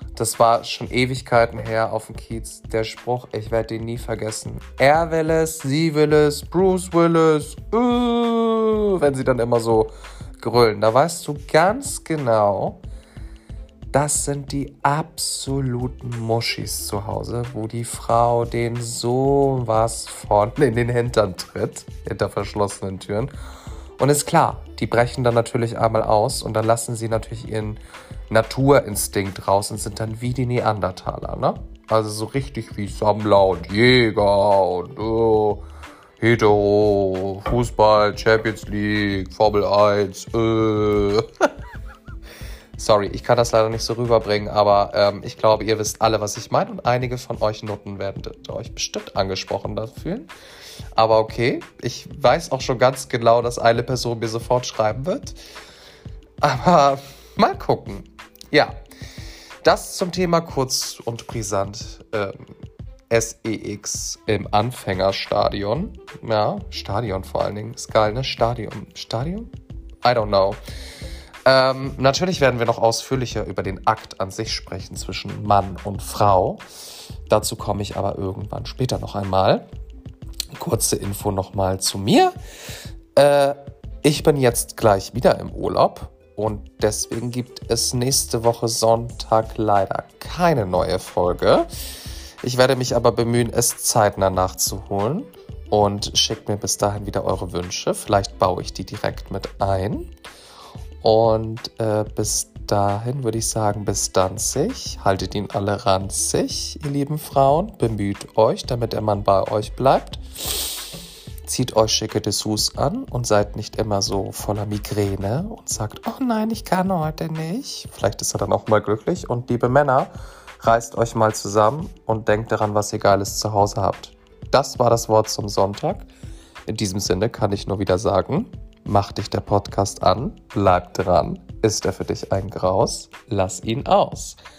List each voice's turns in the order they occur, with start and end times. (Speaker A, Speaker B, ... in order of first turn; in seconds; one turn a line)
Speaker A: 0.1-12.8
Speaker A: 13.9-23.3
Speaker A: 24.0-35.6
Speaker A: 36.2-41.5
Speaker A: 42.8-50.3
Speaker A: 50.9-55.4
Speaker A: 56.4-58.7
Speaker A: 59.6-62.5
Speaker A: 63.1-69.5
Speaker A: 70.0-70.6
Speaker A: 71.4-76.6
Speaker A: 77.3-79.7
Speaker A: 80.5-82.3
Speaker A: 83.1-91.7
Speaker A: 92.4-100.1
Speaker A: 101.0-110.7
Speaker A: 111.4-126.1
Speaker A: 126.7-134.4